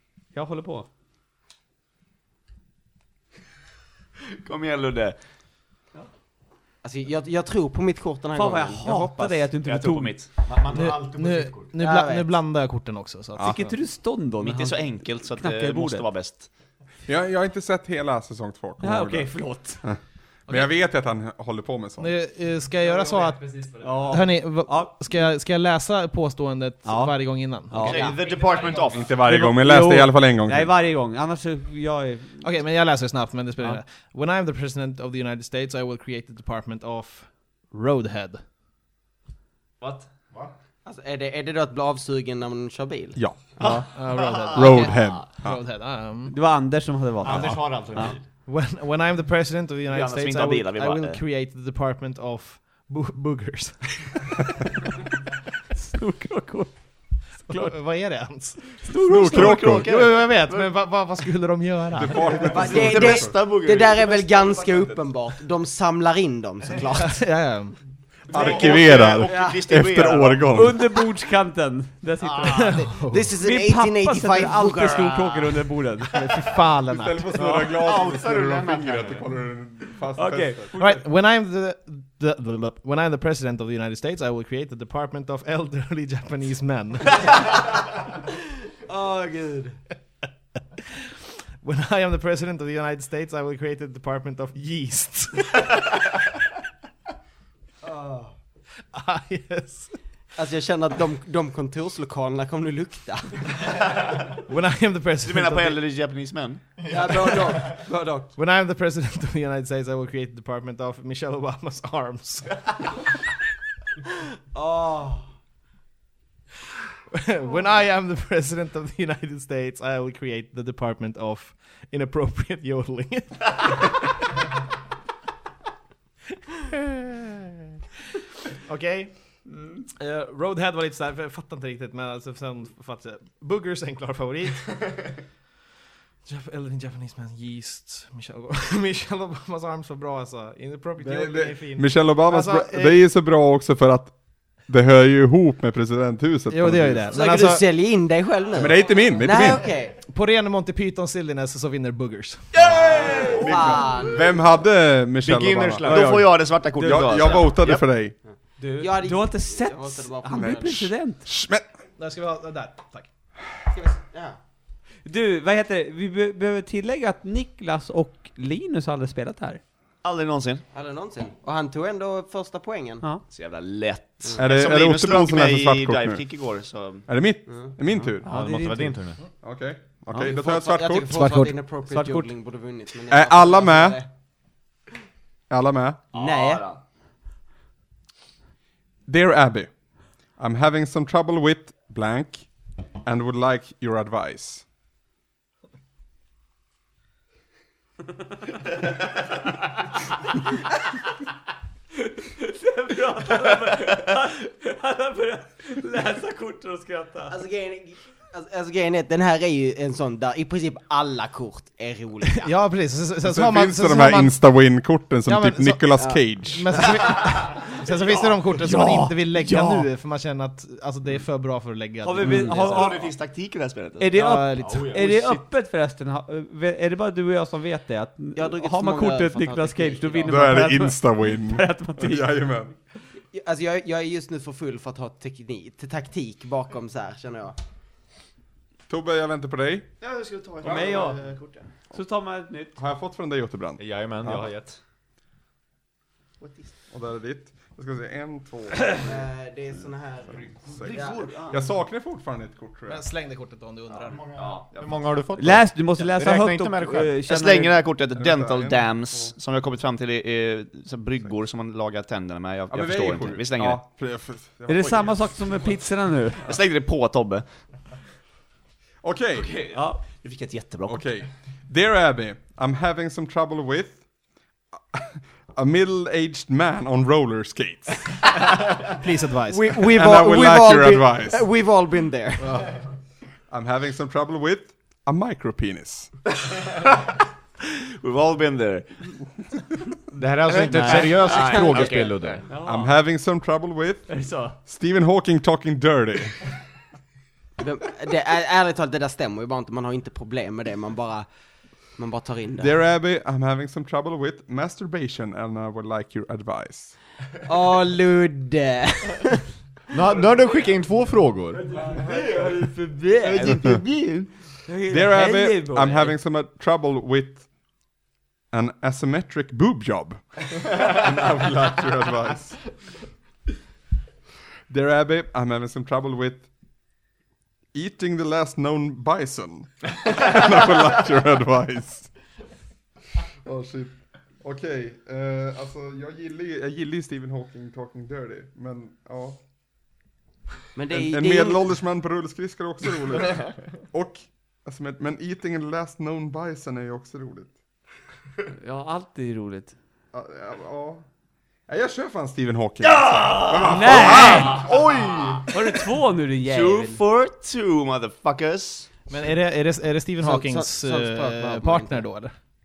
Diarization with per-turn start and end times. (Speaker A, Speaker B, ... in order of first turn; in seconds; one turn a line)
Speaker A: 0.3-0.9
Speaker B: 4.4-5.2
Speaker C: 6.8-9.5
Speaker A: 8.3-10.2
Speaker B: 9.6-10.4
Speaker D: 10.4-11.7
Speaker E: 10.7-13.8
Speaker C: 11.8-12.4
Speaker A: 13.4-16.1
Speaker B: 14.4-16.5
Speaker F: 17.1-22.1
Speaker A: 18.8-19.8
Speaker E: 20.5-20.7
Speaker E: 22.0-23.5
Speaker D: 22.8-23.9
Speaker A: 23.8-24.9
Speaker E: 24.0-28.2
Speaker A: 26.9-28.2
Speaker B: 27.8-29.2
Speaker D: 28.0-29.0
Speaker F: 28.9-30.8
Speaker A: 29.1-32.5
Speaker E: 32.4-38.4
Speaker B: 39.8-40.1
Speaker C: 40.9-43.3
Speaker F: 43.1-43.8
Speaker A: 43.6-43.9
Speaker B: 43.6-45.2
Speaker E: 43.9-46.4
Speaker F: 44.5-45.6
Speaker A: 46.3-48.1
Speaker D: 47.2-48.2
Speaker E: 48.5-54.4
Speaker B: 49.9-51.2
Speaker A: 55.7-57.8
Speaker E: 57.5-62.9
Speaker B: 58.9-60.7
Speaker F: 59.0-59.9
Speaker F: 62.0-63.3
Speaker C: 62.5-67.2
Speaker B: 62.6-64.9
Speaker E: 67.0-67.8
Speaker B: 68.3-70.6
Speaker F: 68.3-70.8
Speaker D: 68.5-69.2
Speaker C: 69.3-69.6
Speaker A: 70.5-76.3
Speaker B: 72.2-72.7
Speaker E: 72.4-73.3
Speaker C: 73.0-75.7
Speaker E: 76.1-77.4
Speaker F: 76.9-80.7
Speaker D: 77.4-79.2
Speaker B: 77.7-78.1
Speaker B: 78.9-79.2
Speaker A: 80.1-81.0
Speaker E: 80.8-87.2
Speaker C: 88.8-89.8
Speaker E: 91.6-95.7
Speaker C: 97.8-98.3
Speaker E: 98.9-100.0
Speaker C: 100.4-103.7
Speaker E: 104.4-105.8
Speaker B: 105.2-106.6
Speaker D: 106.8-107.7
Speaker C: 106.9-108.3
Speaker E: 108.4-112.7
Speaker C: 114.5-115.2
Speaker E: 117.1-123.7
Speaker E: 128.6-135.0
Speaker A: 129.5-129.8
Speaker E: 136.2-143.0
Speaker F: 141.0-144.1
Speaker F: 144.7-147.1
Speaker E: 146.5-147.6
Speaker C: 147.1-149.9
Speaker F: 148.5-149.6
Speaker E: 150.0-152.5
Speaker C: 152.9-154.4
Speaker A: 153.0-153.5
Speaker F: 153.1-158.2
Speaker D: 155.3-155.6
Speaker B: 155.3-157.9
Speaker A: 155.9-157.5
Speaker C: 158.3-160.9
Speaker A: 158.6-161.2
Speaker F: 160.3-161.7
Speaker E: 162.0-163.1
Speaker C: 163.7-164.4
Speaker A: 165.0-169.6
Speaker B: 170.0-170.6
Speaker C: 170.7-173.0
Speaker B: 173.3-177.1
Speaker F: 174.4-176.4
Speaker F: 177.0-178.3
Speaker A: 178.2-179.0
Speaker D: 178.2-179.2
Speaker F: 179.4-181.3
Speaker C: 180.2-184.1
Speaker E: 181.1-181.5
Speaker A: 181.9-182.3
Speaker F: 183.1-184.0
Speaker F: 185.5-186.0
Speaker C: 186.1-186.6
Speaker B: 186.1-186.8
Speaker F: 189.1-189.8
Speaker F: 190.3-194.6
Speaker A: 202.0-207.3
Speaker C: 207.3-212.5
Speaker E: 212.4-214.4
Speaker F: 213.2-216.9
Speaker E: 215.2-222.9
Speaker C: 216.0-216.2
Speaker C: 216.8-217.2
Speaker A: 217.8-219.9
Speaker A: 222.0-223.1
Speaker B: 222.2-224.2
Speaker A: 224.0-232.3
Speaker E: 224.1-225.4
Speaker D: 224.6-225.3
Speaker C: 228.4-230.4
Speaker F: 230.2-232.7
Speaker C: 233.3-237.6
Speaker F: 238.9-239.9
Speaker B: 240.0-241.7
Speaker A: 240.6-241.2
Speaker A: 241.9-242.7
Speaker F: 242.8-244.5
Speaker D: 243.8-244.8
Speaker B: 246.4-246.7
Speaker F: 246.9-249.1
Speaker C: 249.0-251.2
Speaker F: 250.3-253.0
Speaker B: 250.8-251.6
Speaker E: 252.9-254.2
Speaker D: 254.0-255.7
Speaker B: 254.4-255.1
Speaker A: 255.4-257.9
Speaker B: 256.0-263.9
Speaker F: 258.2-259.3
Speaker F: 262.7-265.8
Speaker A: 264.7-266.5
Speaker B: 266.4-267.4
Speaker F: 269.0-269.5
Speaker B: 269.3-271.1
Speaker A: 269.8-270.0
Speaker F: 270.9-274.0
Speaker F: 274.9-278.2
Speaker E: 278.9-279.6
Speaker C: 279.5-282.6
Speaker F: 279.8-281.4
Speaker F: 283.5-286.1
Speaker B: 288.0-289.1
Speaker D: 290.1-292.4
Speaker E: 290.5-291.2
Speaker B: 290.6-292.4
Speaker C: 291.1-292.1
Speaker A: 292.5-292.9
Speaker F: 292.6-296.5
Speaker A: 294.1-294.5
Speaker C: 297.6-301.3
Speaker C: 302.0-302.7
Speaker F: 302.6-307.0
Speaker C: 307.4-309.4
Speaker D: 309.9-311.9
Speaker A: 311.7-313.8
Speaker C: 313.1-314.3
Speaker F: 313.5-313.8
Speaker A: 314.6-316.1
Speaker F: 314.9-317.5
Speaker F: 318.5-322.7
Speaker F: 324.7-326.5
Speaker F: 327.7-332.1
Speaker F: 333.4-339.4
Speaker C: 340.8-341.8
Speaker F: 340.9-347.5
Speaker A: 348.6-349.8
Speaker F: 350.1-351.0
Speaker F: 351.7-354.7
Speaker A: 353.1-354.7
Speaker B: 354.3-355.5
Speaker D: 354.6-355.4
Speaker A: 355.5-357.0
Speaker B: 356.4-358.9
Speaker E: 359.1-362.4
Speaker C: 360.2-362.0